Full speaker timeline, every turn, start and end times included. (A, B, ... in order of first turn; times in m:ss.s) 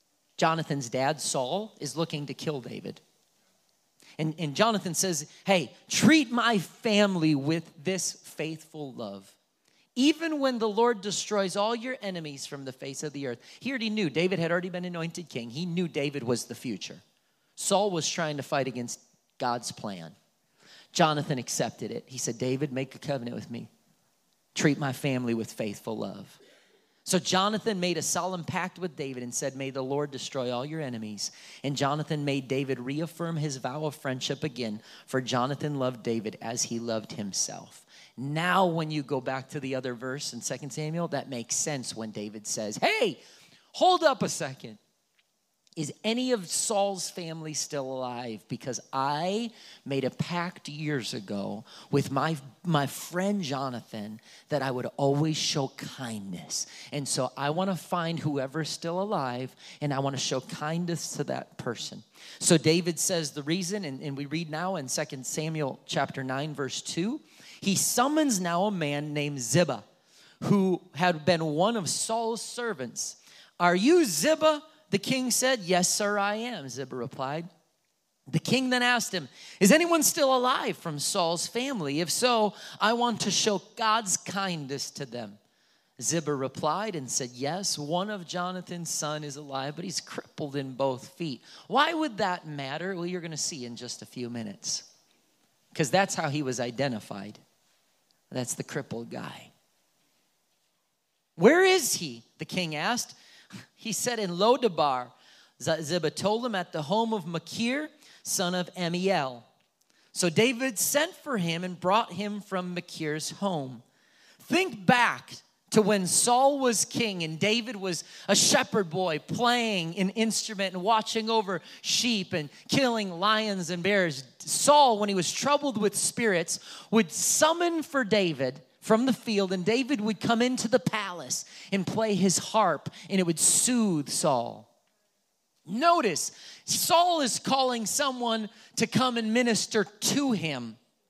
0:00.4-0:03.0 A
0:04.2-0:09.4 A
0:10.0-0:17.0 A
0:17.6-0:20.1 A
0:20.9-0:23.7 A
0:24.5-0:26.4 A
0:27.0-0:43.2 A
0:43.7-0:44.8 A
0:45.8-1:09.8 A
1:10.4-1:17.5 A
1:18.3-1:25.4 A
1:26.0-1:34.9 A
1:35.7-1:37.4 A
1:38.3-1:39.5 A
1:41.4-1:43.2 A
1:43.8-1:49.5 A
1:50.1-1:53.8 A
1:54.4-2:14.7 A
2:15.7-2:20.8 A